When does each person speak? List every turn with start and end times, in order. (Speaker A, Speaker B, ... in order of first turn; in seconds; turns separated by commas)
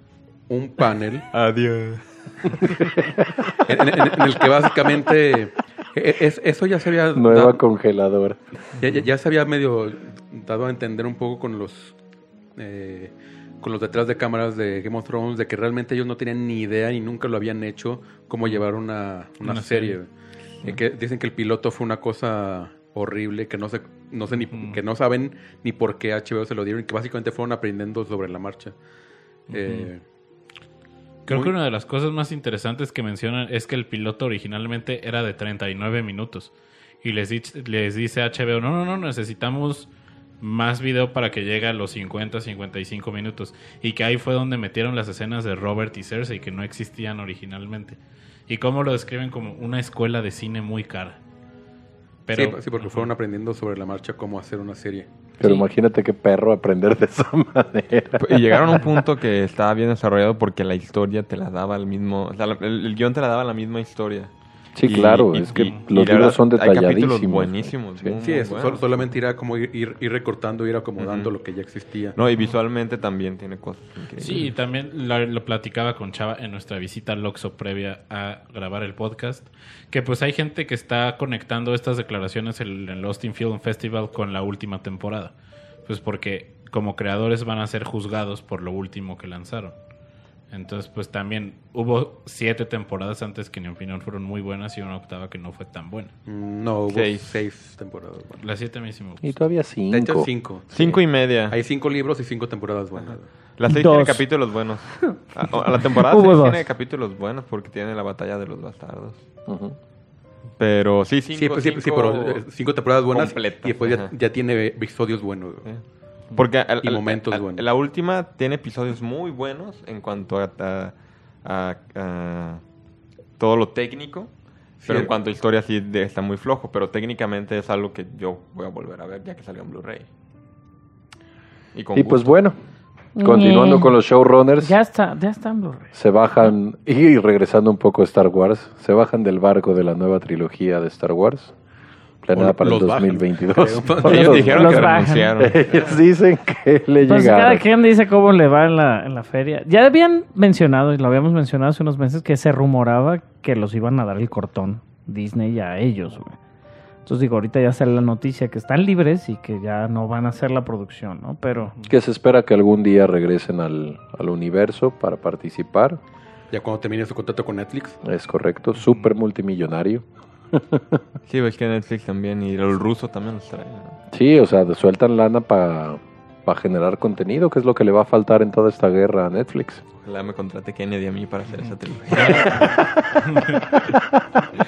Speaker A: 0.5-1.3, Speaker B: 1.3-3.0, Speaker A: 3.6-7.6, Speaker C: 7.1-8.4, Speaker A: 8.8-11.9, Speaker A: 12.6-20.1, Speaker D: 19.4-20.0, Speaker A: 20.6-28.7, Speaker D: 24.5-24.8, Speaker D: 29.5-29.9, Speaker A: 29.5-30.0, Speaker D: 31.2-36.5, Speaker D: 37.0-39.9, Speaker D: 40.4-51.2, Speaker D: 52.2-53.1, Speaker A: 52.3-55.1, Speaker C: 55.4-58.9, Speaker B: 58.2-64.3, Speaker C: 64.8-68.2, Speaker B: 64.8-68.8, Speaker D: 65.4-65.8, Speaker A: 68.2-72.2, Speaker B: 71.0-71.3, Speaker B: 72.1-74.5, Speaker D: 74.2-85.3, Speaker D: 85.8-89.7, Speaker D: 90.5-96.1, Speaker A: 96.2-98.4, Speaker B: 96.9-97.4, Speaker D: 98.4-99.4, Speaker C: 99.2-100.3, Speaker A: 99.9-103.3, Speaker B: 100.7-101.6, Speaker B: 103.6-109.2, Speaker E: 103.7-104.2, Speaker E: 105.7-106.7, Speaker C: 109.5-109.8, Speaker B: 110.6-112.4, Speaker A: 111.3-115.7, Speaker B: 113.1-114.1, Speaker B: 115.6-122.6, Speaker A: 116.8-117.7, Speaker B: 123.4-130.1, Speaker A: 124.8-125.1, Speaker B: 131.7-132.3, Speaker C: 131.9-132.6, Speaker E: 133.2-133.9, Speaker C: 133.2-134.7, Speaker E: 134.6-135.9, Speaker C: 135.9-141.5, Speaker C: 142.2-144.8, Speaker A: 142.3-144.8, Speaker B: 144.0-145.7, Speaker E: 144.0-145.3, Speaker C: 145.4-147.6, Speaker E: 147.0-156.4, Speaker E: 157.1-161.7, Speaker D: 161.6-161.9, Speaker C: 161.9-166.0, Speaker A: 166.5-168.0, Speaker C: 168.0-171.0, Speaker D: 168.8-169.1, Speaker B: 171.3-174.0, Speaker C: 174.1-179.8, Speaker B: 180.0-182.8, Speaker D: 182.1-183.6, Speaker C: 182.2-184.4